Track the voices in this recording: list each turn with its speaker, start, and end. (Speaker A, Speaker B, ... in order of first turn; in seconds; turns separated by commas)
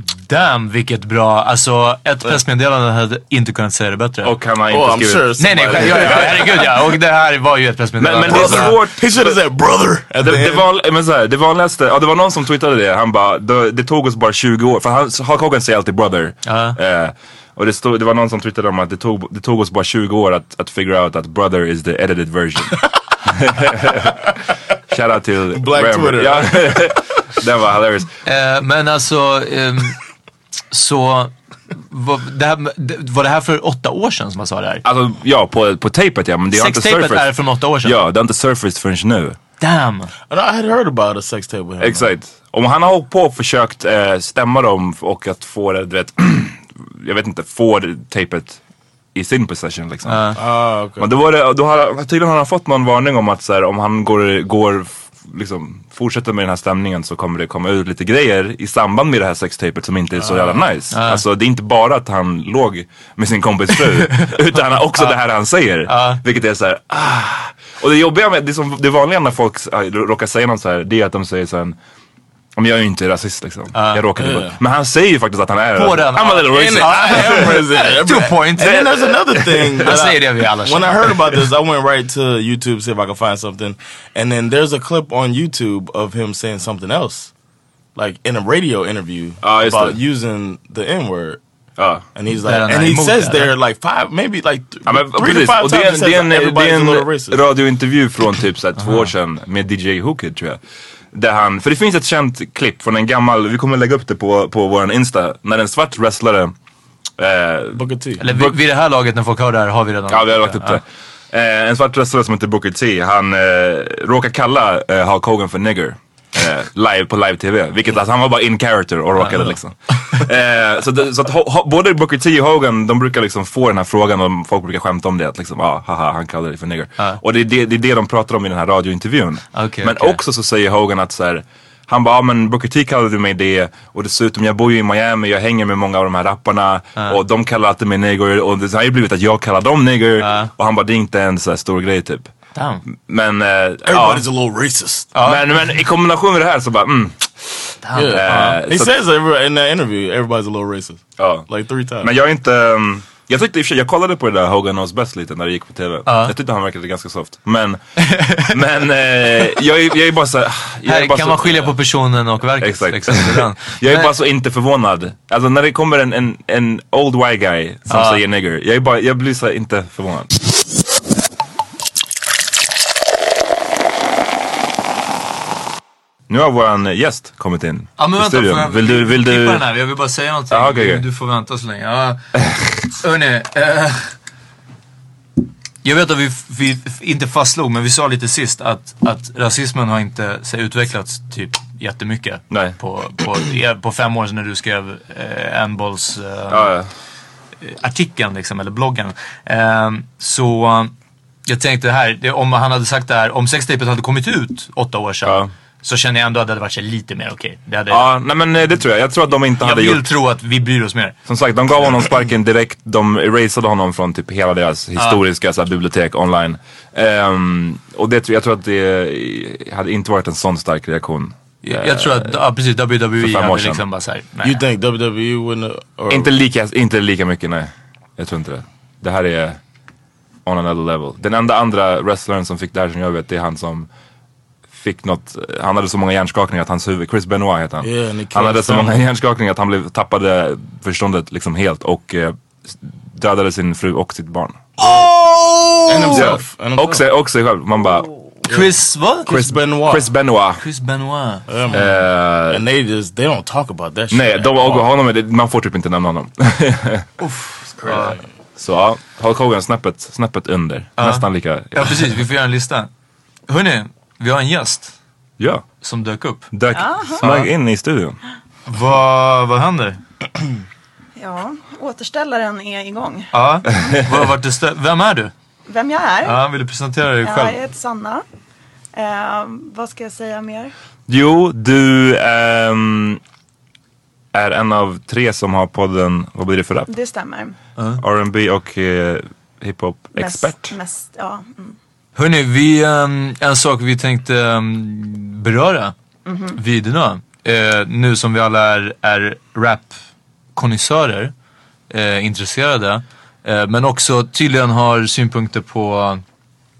Speaker A: 0.1-4.3, Speaker B: 4.2-6.7, Speaker C: 4.7-6.7, Speaker A: 5.4-8.8, Speaker B: 8.0-9.5, Speaker C: 8.3-10.7, Speaker B: 10.2-24.2, Speaker A: 16.5-16.8, Speaker B: 24.9-28.1, Speaker C: 25.5-26.8, Speaker A: 28.2-30.0, Speaker A: 30.7-34.8, Speaker B: 34.8-37.3, Speaker A: 36.5-38.0, Speaker B: 37.8-39.4, Speaker A: 39.6-40.1, Speaker C: 40.3-42.1, Speaker B: 41.8-48.6, Speaker B: 49.1-50.5, Speaker A: 50.1-50.4, Speaker C: 50.4-51.1, Speaker B: 51.0-71.8, Speaker C: 60.2-60.6, Speaker A: 60.9-61.2, Speaker A: 65.9-66.2, Speaker B: 72.6-77.5, Speaker A: 73.7-74.0, Speaker C: 74.2-74.6, Speaker A: 75.8-78.8, Speaker C: 76.5-87.3, Speaker B: 78.6-80.0, Speaker A: 79.8-81.1, Speaker C: 88.0-91.4, Speaker B: 89.4-90.0, Speaker B: 91.8-92.1, Speaker C: 92.2-97.4, Speaker A: 92.4-93.5, Speaker B: 94.9-100.6, Speaker B: 101.1-106.5, Speaker B: 107.2-108.5, Speaker C: 107.8-108.2, Speaker A: 108.2-110.8, Speaker B: 110.1-142.3, Speaker A: 119.2-119.5, Speaker A: 129.5-130.2, Speaker A: 140.2-140.5, Speaker A: 142.6-142.8, Speaker B: 142.9-144.3, Speaker C: 143.9-145.1, Speaker A: 145.1-145.4, Speaker B: 145.2-149.0, Speaker A: 147.8-148.6, Speaker C: 147.9-152.1, Speaker B: 151.2-151.5, Speaker B: 152.0-161.8, Speaker A: 156.1-156.3, Speaker A: 158.0-158.5, Speaker A: 160.9-164.1, Speaker B: 162.6-170.3, Speaker A: 167.9-168.2, Speaker B: 176.3-179.7, Speaker A: 178.0-182.2, Speaker B: 180.5-181.1, Speaker A: 182.9-184.1, Speaker A: 185.8-196.7, Speaker B: 192.5-192.8, Speaker B: 196.5-196.9, Speaker A: 197.6-200.9, Speaker A: 201.5-208.1, Speaker B: 205.2-205.5, Speaker B: 207.9-210.1, Speaker A: 209.6-211.2, Speaker B: 211.3-222.4, Speaker A: 221.6-224.6, Speaker B: 223.2-223.8, Speaker C: 224.4-226.3, Speaker B: 226.1-229.6, Speaker B: 230.5-233.9, Speaker B: 234.7-245.0, Speaker C: 237.8-239.0, Speaker C: 244.8-245.1, Speaker A: 245.6-246.3, Speaker C: 245.9-247.0, Speaker B: 246.1-248.1, Speaker C: 248.5-248.7, Speaker A: 248.5-249.3, Speaker C: 249.3-250.1, Speaker B: 249.3-250.6, Speaker A: 250.6-251.8, Speaker C: 251.5-254.9, Speaker B: 251.7-252.7, Speaker B: 254.1-257.1, Speaker A: 257.2-258.2, Speaker C: 257.8-258.2, Speaker B: 258.6-262.1, Speaker A: 261.0-262.9, Speaker A: 263.5-264.9, Speaker B: 265.4-265.6, Speaker A: 265.8-266.5, Speaker B: 266.5-268.2, Speaker D: 266.7-267.2, Speaker A: 267.2-267.5, Speaker A: 268.7-270.0, Speaker D: 271.2-273.3, Speaker A: 273.3-275.3, Speaker D: 275.7-276.4, Speaker A: 276.2-277.6, Speaker D: 277.2-278.2, Speaker D: 278.9-280.7, Speaker B: 281.1-283.2, Speaker B: 284.3-286.9, Speaker D: 286.9-287.6, Speaker B: 288.0-290.8, Speaker D: 290.2-291.8, Speaker A: 292.2-295.9, Speaker D: 296.3-296.6, Speaker A: 296.6-299.9, Speaker A: 300.6-301.3, Speaker A: 301.9-306.2